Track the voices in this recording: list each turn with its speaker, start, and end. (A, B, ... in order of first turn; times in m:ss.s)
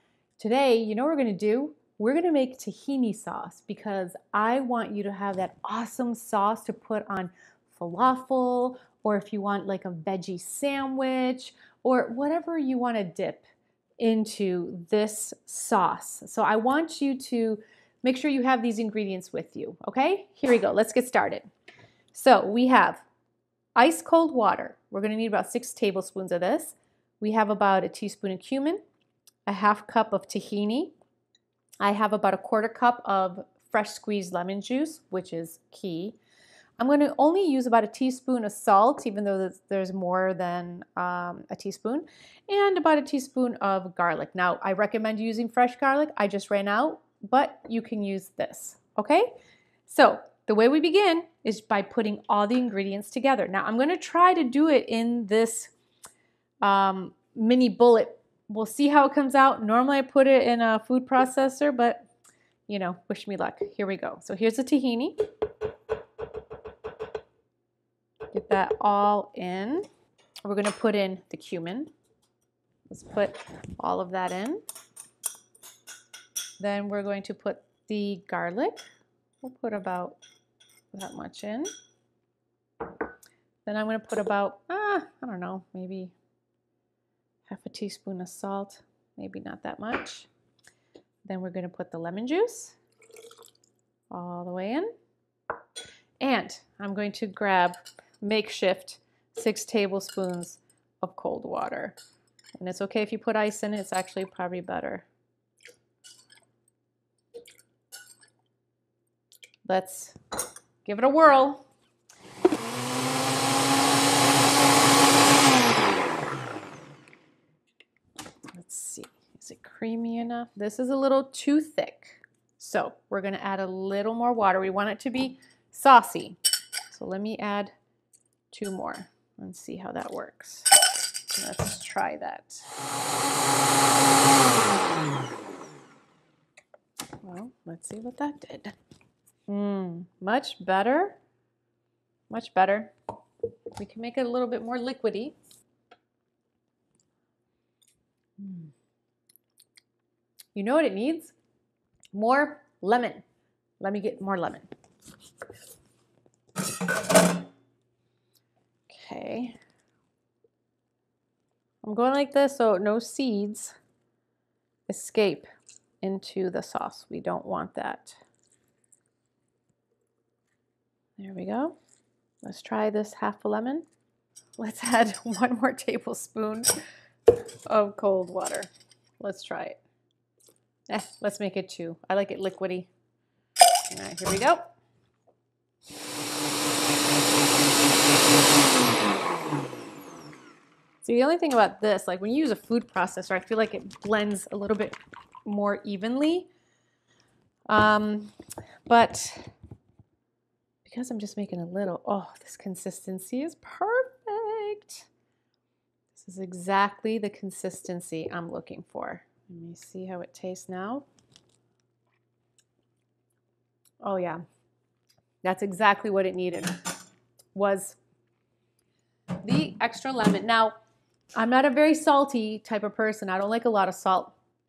0:00.4-0:13.4 A
0:14.0-0:21.5 A
0:22.1-0:23.0 A
0:23.7-0:28.8 A
0:29.4-0:30.9 A
0:31.8-0:36.2 A
0:36.8-0:49.3 A
0:49.9-0:55.7 A
0:56.6-1:02.0 A
1:02.7-1:05.2 A
1:08.3-1:09.9 A
1:10.4-1:11.9 A
1:12.9-1:14.6 A
1:16.6-1:18.8 A
1:19.4-1:20.2 A
1:20.9-1:21.7 A
1:23.6-1:26.1 A
1:27.5-1:30.3 A
1:31.2-1:32.8 A
1:34.1-1:34.9 A
1:36.2-1:41.9 A
1:42.6-1:45.1 A
1:49.6-1:50.2 A
1:50.8-1:51.6 A
1:58.5-2:07.7 A
2:08.5-2:12.7 A
2:17.2-2:18.7 A
2:19.5-2:21.2 A
2:22.3-2:22.9 A
2:23.8-2:25.3 A
2:28.4-2:28.7 A
2:30.5-2:31.3 A
2:32.1-2:33.2 A
2:33.8-2:34.7 A
2:38.9-2:39.6 A
2:41.8-2:43.8 A
2:44.9-2:45.5 A
2:46.0-2:48.2 A
2:51.2-2:51.8 A
2:52.4-2:53.8 A
2:54.6-2:56.7 A
2:57.6-2:59.8 A
3:00.9-3:02.9 A
3:03.9-3:04.7 A
3:11.0-3:16.5 A
3:17.7-3:18.3 A
3:18.8-3:19.5 A
3:20.8-3:25.1 A
3:26.1-3:31.0 A
3:34.0-3:34.4 A
3:35.4-3:36.7 A
3:37.5-3:38.0 A
3:39.4-3:40.7 A
3:41.3-3:44.3 A